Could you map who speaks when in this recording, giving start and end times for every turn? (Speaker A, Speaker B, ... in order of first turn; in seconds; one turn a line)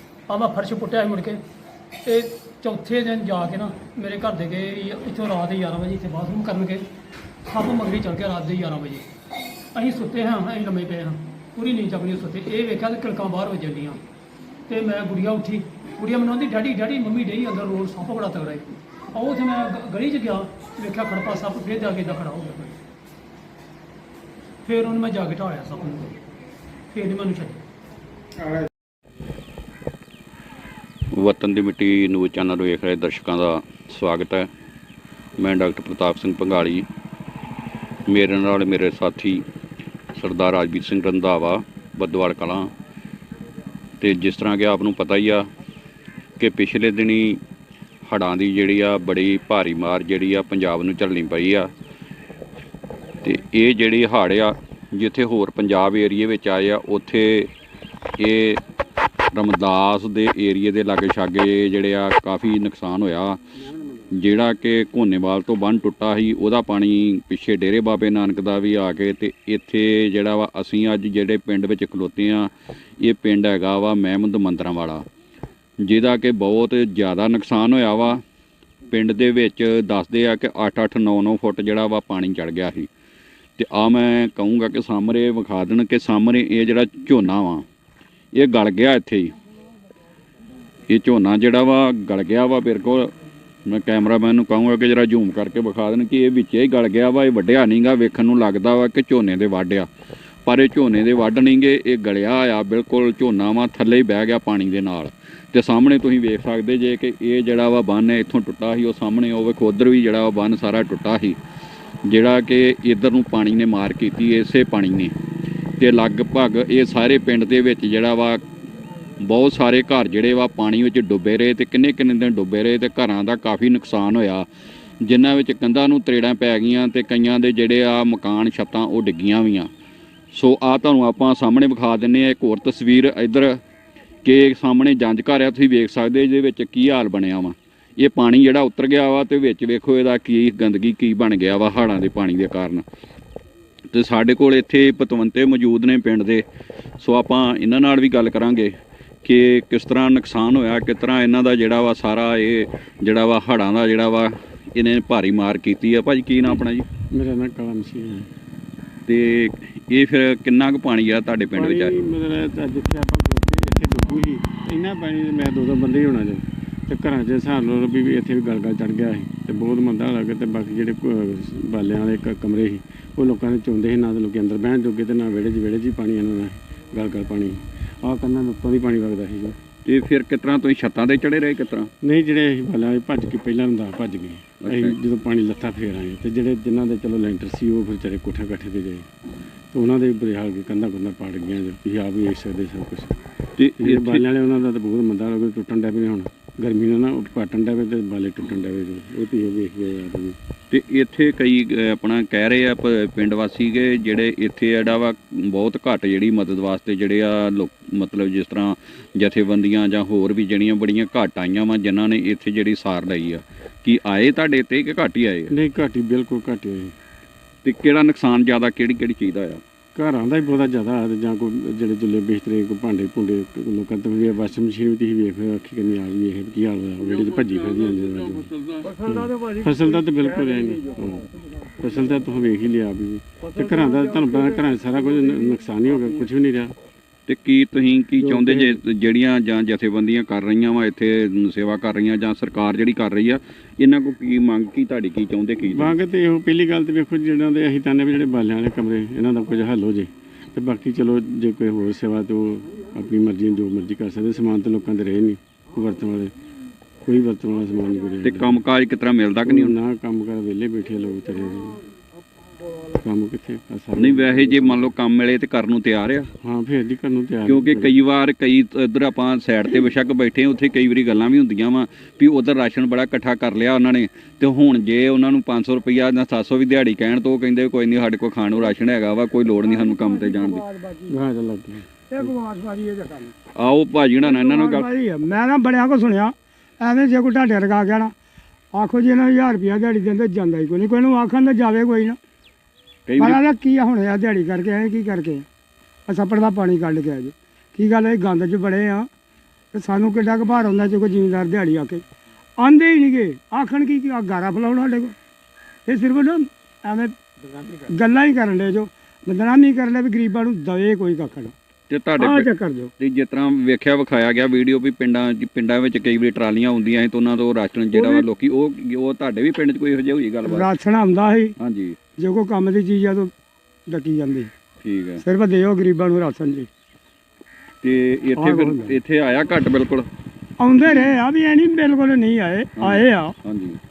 Speaker A: 0.3-1.4
Speaker A: 2.0-6.8
Speaker A: 7.4-9.1
Speaker A: 9.7-14.0
Speaker A: 14.7-22.8
Speaker A: 24.6-26.2
Speaker A: 26.9-27.6
Speaker B: 31.1-34.5
Speaker B: 35.4-36.9
Speaker B: 38.1-39.4
Speaker B: 40.1-42.7
Speaker B: 44.0-45.5
Speaker B: 46.4-47.4
Speaker B: 48.1-51.7
Speaker B: 53.2-57.5
Speaker B: 58.2-58.6
Speaker B: 59.3-63.4
Speaker B: 64.1-75.0
Speaker B: 75.8-78.2
Speaker B: 78.9-82.9
Speaker B: 83.6-87.6
Speaker B: 88.3-89.3
Speaker B: 90.9-93.1
Speaker B: 93.7-99.9
Speaker B: 100.5-111.4
Speaker B: 112.1-115.1
Speaker B: 115.8-118.4
Speaker B: 119.2-124.5
Speaker B: 125.0-129.7
Speaker B: 130.3-133.6
Speaker B: 134.2-142.8
Speaker B: 143.9-146.4
Speaker B: 147.0-148.7
Speaker B: 149.2-156.8
Speaker C: 157.1-158.3
Speaker B: 159.1-161.9
Speaker C: 161.5-179.6
Speaker B: 179.8-181.9
Speaker C: 182.0-189.1
Speaker B: 184.6-185.0
Speaker C: 189.7-193.2
Speaker B: 193.6-194.2
Speaker C: 193.8-200.4
Speaker B: 200.7-215.5
Speaker C: 215.5-216.9
Speaker B: 217.6-219.6
Speaker C: 219.9-236.7
Speaker D: 228.8-230.0
Speaker D: 233.9-234.5
Speaker B: 237.3-246.0
Speaker C: 238.2-238.8
Speaker C: 245.6-256.3
Speaker C: 257.0-258.6
Speaker B: 258.2-259.8
Speaker C: 259.4-261.8
Speaker C: 262.9-264.9
Speaker B: 263.9-266.3
Speaker C: 266.4-268.0
Speaker B: 267.4-280.6
Speaker D: 279.6-281.1
Speaker C: 281.1-282.3
Speaker D: 282.1-283.3
Speaker B: 283.6-284.9
Speaker D: 284.2-288.1
Speaker D: 288.7-292.2
Speaker B: 293.1-293.4
Speaker D: 293.2-295.4
Speaker D: 296.1-299.1
Speaker D: 299.7-302.0
Speaker D: 302.6-305.1
Speaker D: 305.9-307.1
Speaker D: 307.9-311.5
Speaker B: 311.9-320.7
Speaker D: 312.2-312.9
Speaker D: 317.9-318.2
Speaker D: 320.4-321.5
Speaker B: 321.6-321.9
Speaker D: 322.2-323.3
Speaker D: 323.9-324.5
Speaker B: 324.8-325.2
Speaker D: 325.2-326.7
Speaker B: 327.8-330.1
Speaker D: 328.4-329.0
Speaker D: 330.6-333.4
Speaker B: 332.8-333.8